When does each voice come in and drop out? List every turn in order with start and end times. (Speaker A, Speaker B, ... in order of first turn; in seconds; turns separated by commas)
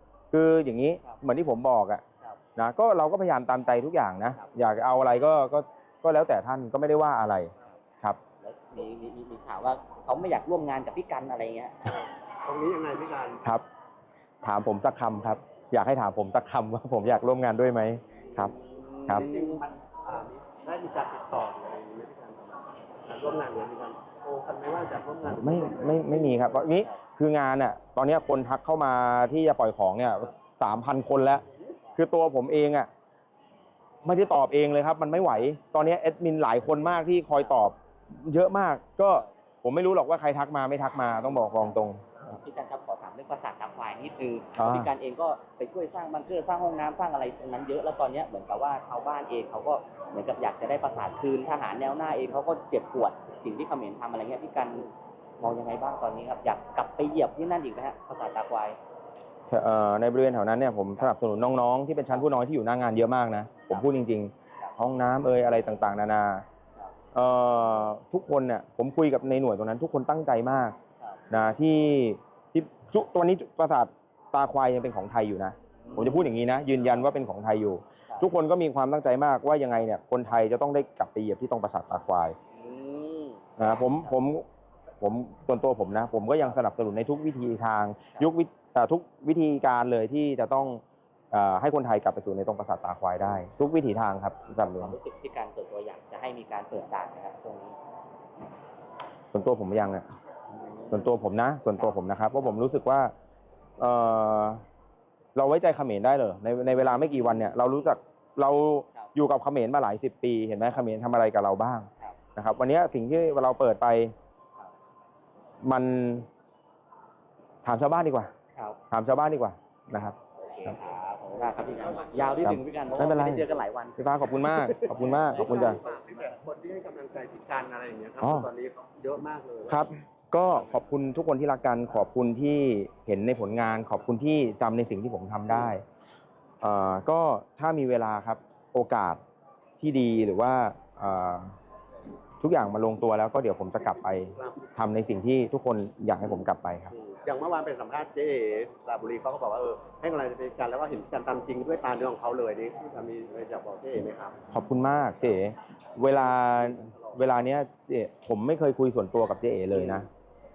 Speaker A: 0.3-2.0, Speaker A: 2.6-8.2, Speaker B: 4.3-4.6, Speaker B: 8.4-11.8, Speaker C: 11.9-13.4, Speaker A: 14.4-18.5, Speaker C: 18.3-18.5, Speaker B: 18.5-19.6, Speaker C: 19.1-26.6, Speaker A: 25.3-31.4, Speaker A: 31.9-32.9, Speaker A: 34.0-42.3, Speaker B: 41.2-58.8, Speaker A: 44.5-44.9, Speaker A: 59.5-66.4, Speaker B: 63.5-63.9, Speaker A: 67.1-70.7, Speaker B: 71.0-71.2, Speaker A: 71.3-82.3, Speaker B: 75.8-76.3, Speaker B: 82.5-84.2, Speaker A: 83.6-84.4, Speaker A: 85.0-90.8, Speaker A: 91.3-95.0, Speaker B: 94.7-97.8, Speaker A: 99.3-100.0, Speaker B: 100.5-101.1, Speaker A: 100.9-103.1, Speaker B: 101.8-102.6, Speaker A: 103.8-104.6, Speaker A: 105.3-114.1, Speaker A: 115.6-116.3, Speaker A: 117.6-118.3, Speaker A: 118.9-120.8, Speaker B: 120.4-124.2, Speaker A: 122.4-123.5, Speaker A: 124.0-125.8, Speaker B: 124.9-125.8, Speaker C: 124.9-129.8, Speaker A: 128.2-128.4, Speaker A: 129.7-135.8, Speaker A: 136.6-139.2, Speaker A: 139.8-141.5, Speaker A: 142.4-146.9, Speaker C: 144.4-144.7, Speaker C: 146.9-154.4, Speaker A: 154.5-160.1, Speaker C: 156.8-157.2